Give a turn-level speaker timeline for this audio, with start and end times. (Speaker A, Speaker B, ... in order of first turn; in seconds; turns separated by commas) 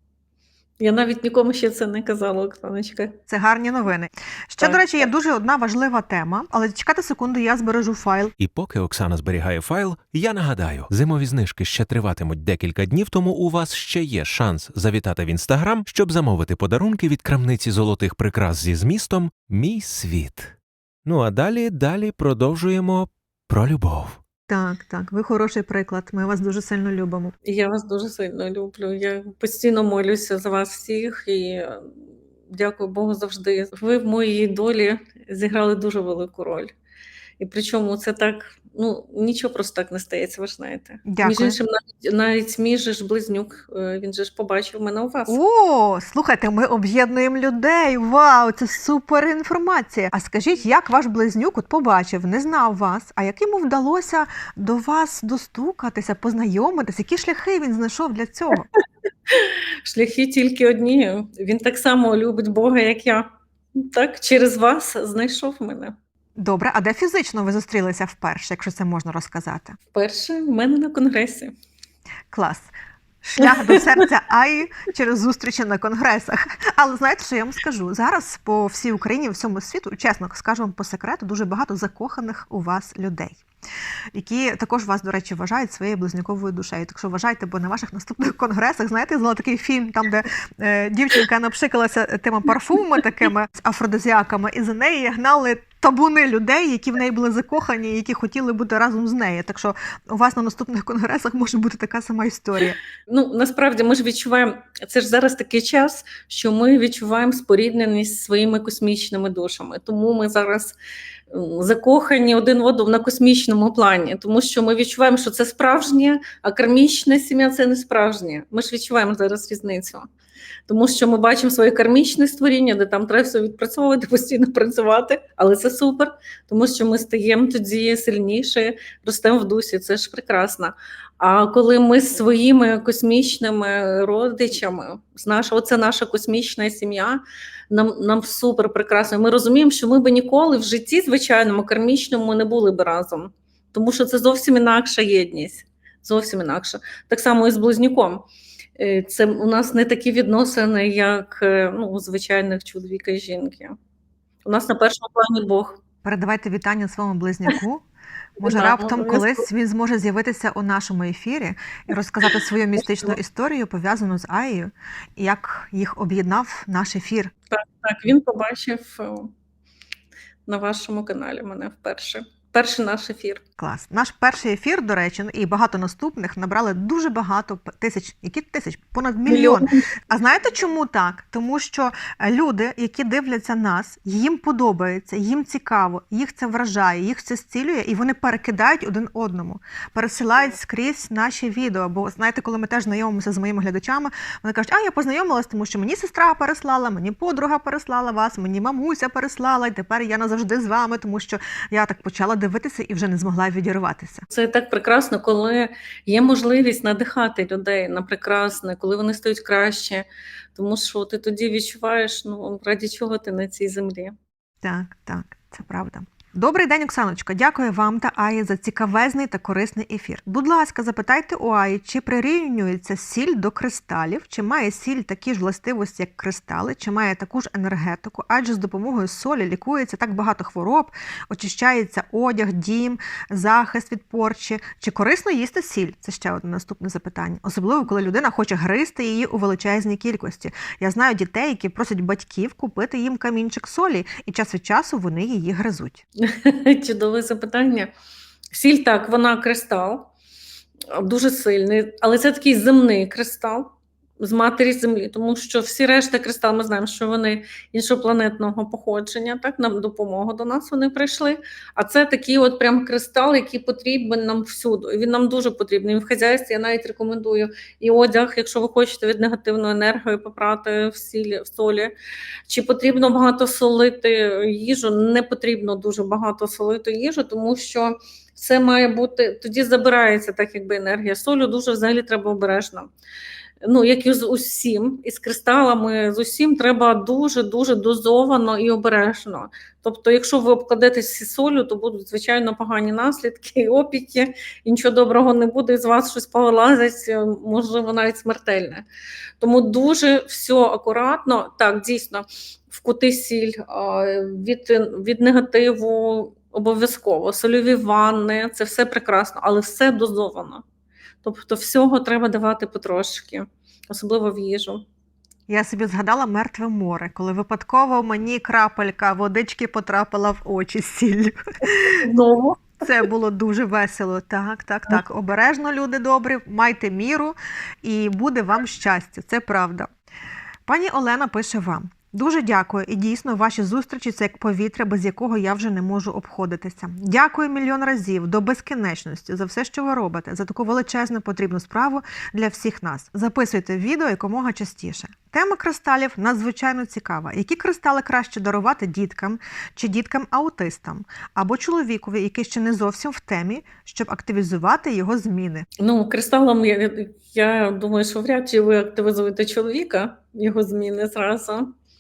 Speaker A: 0.8-3.2, Speaker B: 3.3-8.3, Speaker A: 4.6-5.0, Speaker C: 8.4-24.2, Speaker B: 24.5-27.3, Speaker A: 27.4-31.9, Speaker A: 32.5-36.7, Speaker A: 37.4-45.4, Speaker B: 41.1-41.6, Speaker B: 45.3-58.7, Speaker A: 59.3-66.0, Speaker B: 66.4-69.8, Speaker A: 69.9-71.5, Speaker B: 72.3-72.7, Speaker B: 73.2-83.4, Speaker A: 73.4-74.1, Speaker B: 84.1-102.8, Speaker A: 103.1-110.8, Speaker A: 111.3-120.1, Speaker A: 120.7-148.2, Speaker A: 148.8-153.8, Speaker A: 154.4-155.8, Speaker B: 156.0-157.8, Speaker B: 158.4-167.3, Speaker A: 158.4-159.5, Speaker A: 167.5-169.3, Speaker A: 170.5-173.4, Speaker B: 173.6-204.3, Speaker A: 179.3-179.9, Speaker A: 204.3-214.2, Speaker B: 214.6-246.1, Speaker A: 246.2-247.9, Speaker A: 248.5-250.1, Speaker A: 250.9-271.9, Speaker A: 272.5-282.9, Speaker A: 283.6-298.9, Speaker A: 299.4-310.6, Speaker A: 311.2-314.8, Speaker B: 315.5-322.0, Speaker A: 321.8-322.8, Speaker B: 322.8-329.9, Speaker B: 330.7-355.7, Speaker A: 355.8-361.7